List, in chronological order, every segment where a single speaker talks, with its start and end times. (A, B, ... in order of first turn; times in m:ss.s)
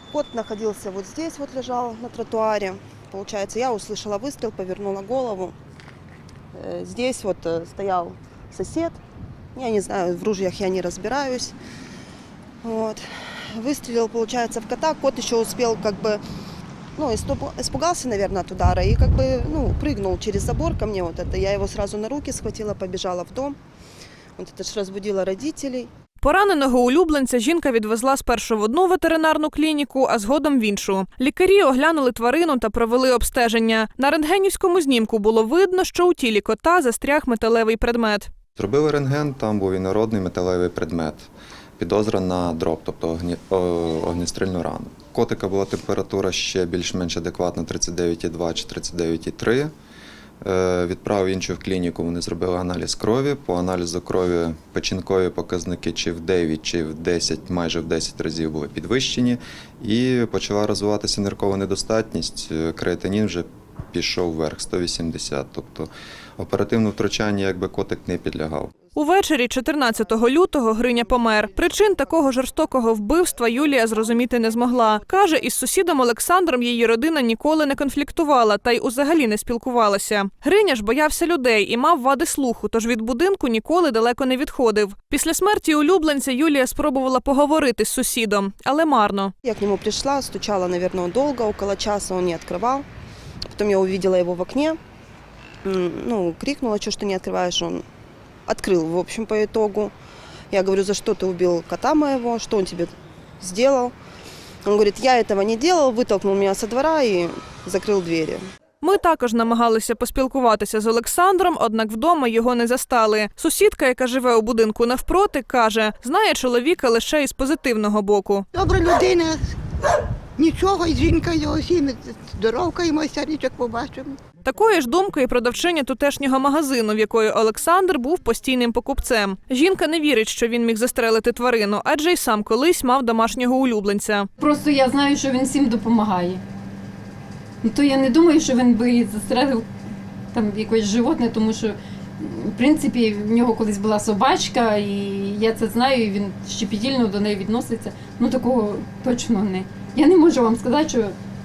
0:00.1-0:05.5 A
0:06.6-0:09.0 A
0:09.5-0:11.5 A
0:12.6-0:13.0 A
0:13.5-0:16.2 A
0:17.0-0:23.6 A
0:24.4-0:25.9 A
0:26.2-0:38.3 B
0:38.6-0:49.7 C
0:50.4-1:08.7 C
1:08.9-1:29.3 B
1:29.4-1:32.8 A
1:33.5-1:34.8 A
1:35.6-1:37.8 A
1:38.5-1:39.9 A
1:40.5-1:43.9 A
1:44.6-1:48.4 A
1:48.8-1:58.4 B
1:58.6-1:59.3 D
2:00.4-2:04.1 D
2:04.4-2:14.3 B
2:14.4-2:16.4 E
2:17.6-2:19.6 E
2:20.3-2:31.2 E